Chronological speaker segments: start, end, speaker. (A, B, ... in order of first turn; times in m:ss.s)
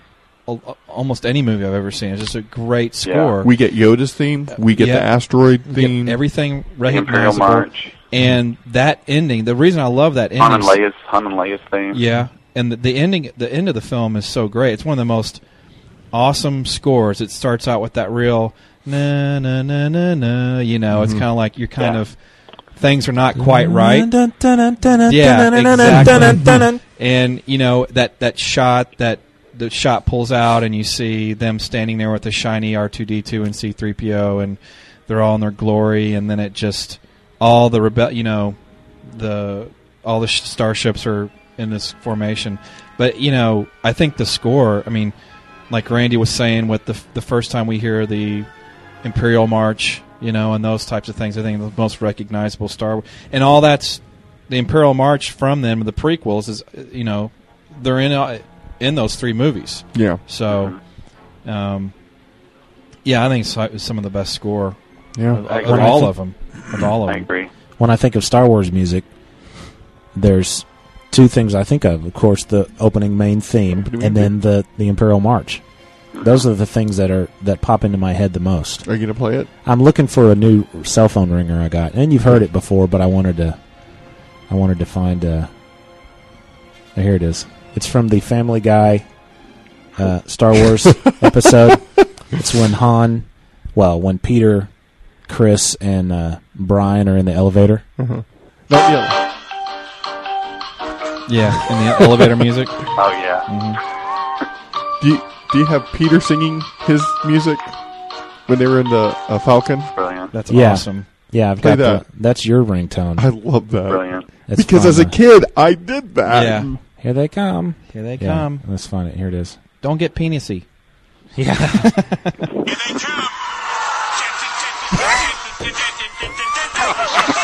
0:00.5-0:03.5 A
0:03.0-0:03.3 B
0:03.4-0:06.2 C
0:04.5-0:05.1 A
0:05.7-0:10.8 A
0:06.9-0:07.9 B
0:10.4-0:12.0 B
0:11.9-0:15.4 A
0:16.1-0:22.2 A
0:20.9-0:21.2 C
0:22.8-0:24.1 A
0:23.4-0:26.8 D
0:25.1-0:45.1 A
0:26.2-0:26.6 C
0:45.7-0:48.5 A
0:49.0-1:00.8 A
1:00.0-1:00.2 C
1:00.5-1:00.8 B
1:01.4-1:01.9 A
1:03.0-1:04.8 A
1:05.2-1:05.4 C
1:05.3-1:07.3 A
1:05.5-1:05.8 B
1:05.6-1:06.2 D
1:07.1-1:07.5 B
1:07.8-1:09.1 D
1:10.2-1:15.6 D
1:13.8-1:14.3 C
1:16.2-1:16.4 B
1:16.2-1:18.8 D
1:18.8-1:19.5 C
1:19.6-1:23.6 D
1:24.5-1:25.5 D
1:27.0-1:29.1 D
1:30.0-1:34.7 D
1:35.3-1:37.8 D
1:38.0-1:39.2 C
1:41.3-1:42.9 A
1:43.0-1:43.5 B
1:43.5-1:43.8 A
1:45.0-1:47.8 C
1:48.5-1:49.9 C
1:50.0-1:50.3 B
1:50.3-1:51.1 A
1:50.5-1:53.3 D
1:51.6-1:52.0 C
1:53.2-1:56.8 C
1:53.9-1:54.3 B
1:54.5-1:55.2 D
1:56.3-1:56.7 A
1:57.0-1:59.6 D
1:57.9-1:58.6 A
1:59.8-2:00.7 A
2:01.4-2:02.0 D
2:01.7-2:02.3 A